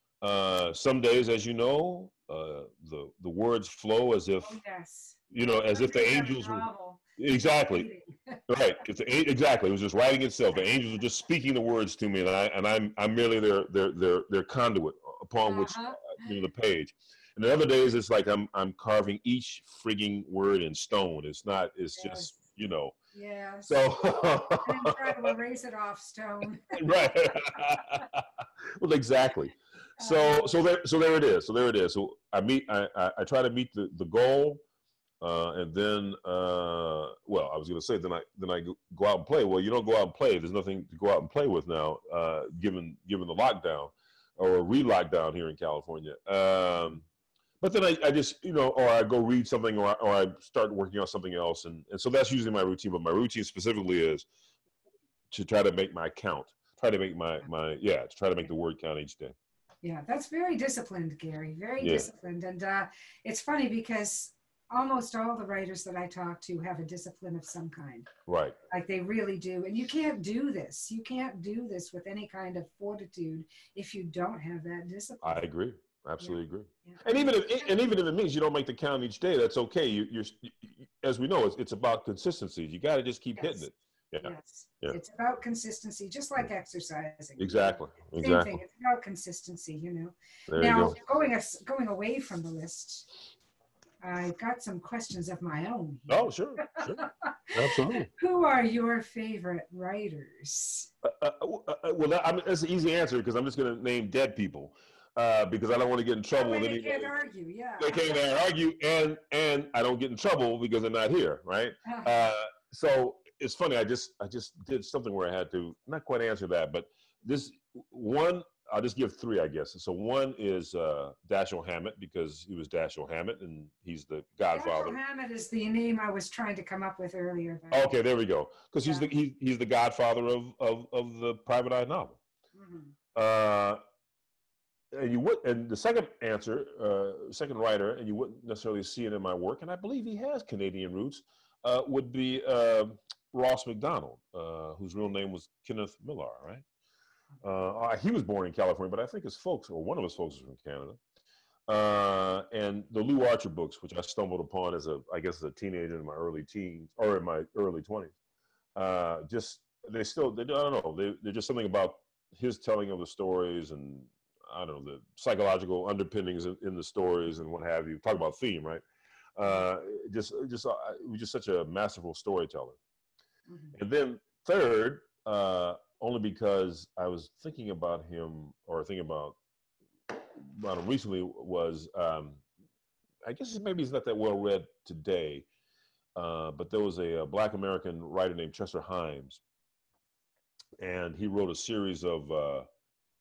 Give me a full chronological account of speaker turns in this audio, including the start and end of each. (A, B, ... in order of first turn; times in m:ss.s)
0:00.2-0:04.6 A
0:04.4-0:07.0 B
0:05.3-0:06.6 A
0:07.2-0:07.9 A
0:07.5-0:08.4 B
0:08.5-0:23.0 A
0:15.4-0:16.2 B
0:22.0-0:22.3 B
0:23.1-0:23.8 B
0:23.6-0:25.2 A
0:24.6-0:26.8 B
0:26.7-0:34.6 A
0:30.0-0:30.6 B
0:35.2-0:47.0 A
0:47.6-0:54.3 A
0:55.3-0:59.4 A
0:59.8-1:08.1 B
1:01.8-1:02.1 A
1:08.2-1:08.6 A
1:08.7-1:15.4 B
1:15.2-1:25.0 A
1:16.2-1:17.8 B
1:23.4-1:23.6 B
1:24.2-1:33.1 B
1:27.4-1:28.6 A
1:30.5-1:31.0 A
1:34.0-1:40.9 B
1:36.1-1:38.1 A
1:41.0-1:47.1 A
1:46.3-1:48.2 B
1:47.8-2:05.0 A
1:51.8-1:52.2 B
2:04.5-2:07.9 B
2:07.7-2:12.2 A
2:12.5-2:13.0 B
2:13.1-2:13.8 A
2:14.9-2:26.6 A
2:27.4-2:31.0 A
2:31.7-2:38.1 A
2:38.7-2:48.8 A
2:49.4-2:52.8 A
2:53.5-2:53.8 B
2:53.7-2:59.4 A
3:00.1-3:02.4 A
3:03.2-3:05.5 A
3:06.2-3:09.4 A
3:10.8-3:12.7 A